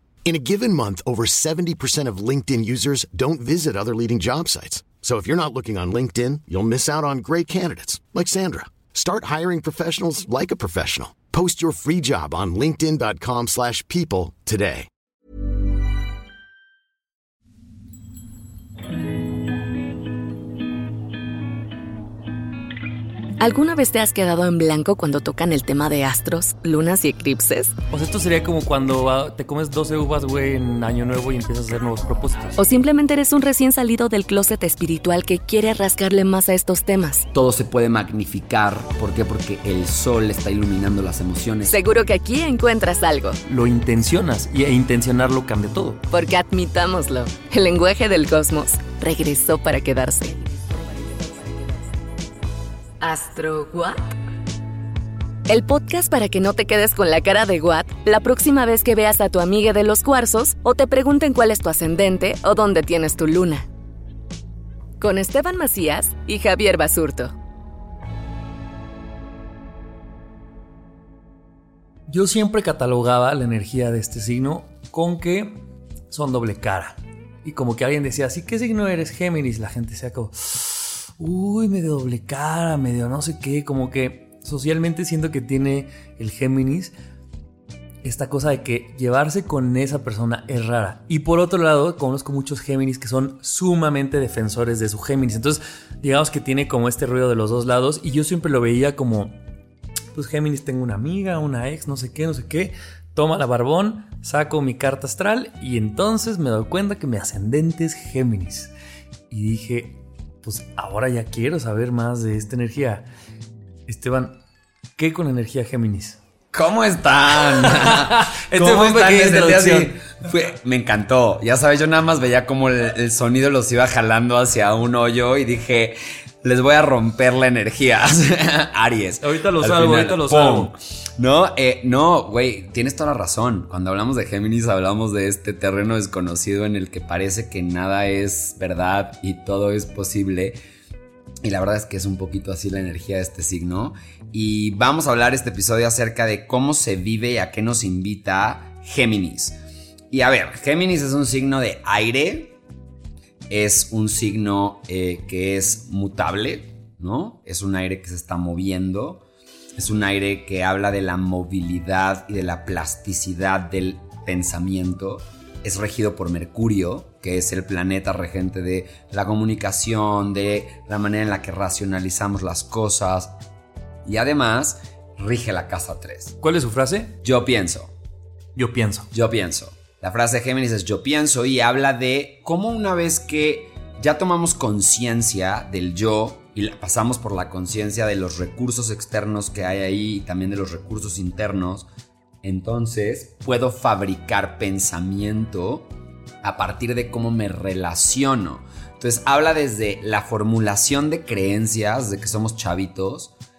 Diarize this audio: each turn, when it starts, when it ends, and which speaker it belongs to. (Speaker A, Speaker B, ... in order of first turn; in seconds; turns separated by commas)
Speaker A: 0.3-14.9, Speaker B: 23.4-27.7, Speaker C: 27.9-32.6, Speaker B: 32.6-37.3, Speaker D: 37.3-41.8, Speaker B: 41.7-43.4, Speaker C: 43.5-46.0, Speaker B: 46.1-50.5, Speaker B: 53.0-54.0, Speaker B: 55.5-63.7, Speaker B: 65.0-67.3, Speaker C: 72.1-75.5, Speaker C: 76.1-86.9, Speaker C: 88.0-99.4, Speaker C: 100.1-108.7, Speaker C: 109.3-113.1, Speaker C: 113.9-114.4, Speaker C: 115.0-116.2, Speaker D: 116.5-140.6, Speaker C: 117.6-120.0, Speaker C: 129.2-130.7, Speaker D: 141.4-149.6, Speaker D: 150.1-152.6, Speaker D: 153.5-159.2, Speaker D: 159.8-173.3, Speaker D: 174.1-176.4, Speaker C: 176.4-177.2, Speaker D: 177.2-177.9, Speaker C: 178.6-179.1, Speaker D: 179.1-191.9, Speaker D: 192.4-195.9, Speaker D: 196.4-203.3